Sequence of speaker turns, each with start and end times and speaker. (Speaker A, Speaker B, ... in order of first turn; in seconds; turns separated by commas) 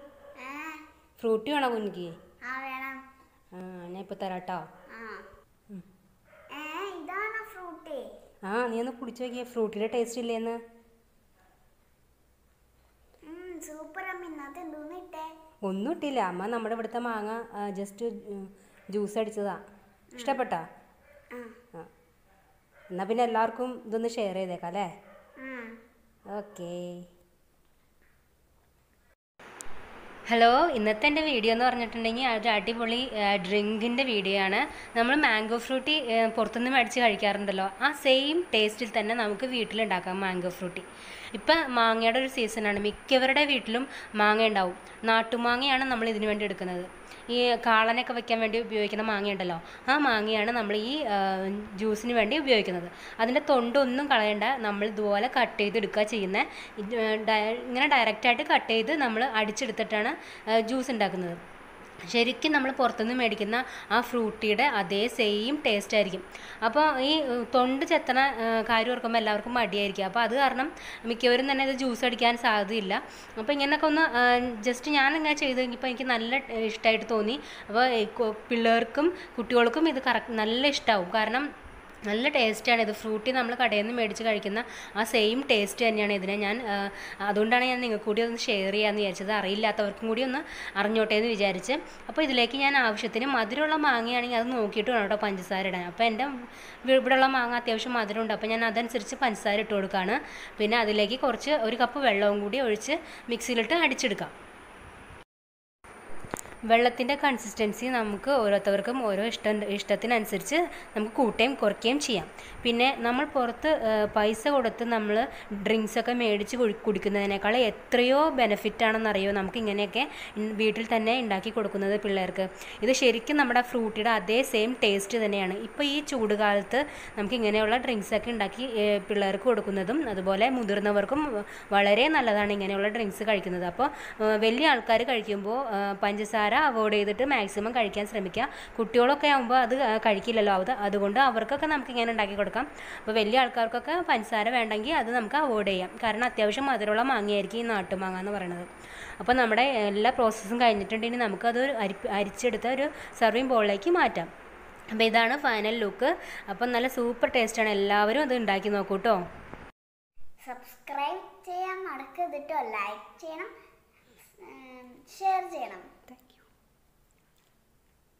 Speaker A: 0.4-0.8, Speaker B: 1.2-2.1, Speaker A: 2.5-3.0, Speaker B: 3.5-4.6, Speaker A: 4.9-5.3, Speaker A: 6.5-8.0, Speaker B: 8.5-10.6, Speaker A: 13.3-15.3, Speaker B: 15.7-19.6, Speaker A: 20.1-20.4, Speaker B: 20.2-20.6, Speaker B: 22.9-24.9, Speaker A: 25.4-25.8, Speaker B: 26.3-26.9, Speaker B: 30.3-61.4, Speaker B: 62.0-81.5, Speaker B: 82.1-96.3, Speaker B: 96.9-104.3, Speaker B: 106.7-148.7, Speaker B: 149.2-154.3, Speaker B: 154.9-159.2, Speaker A: 160.4-163.5, Speaker A: 164.4-165.9, Speaker B: 166.1-166.4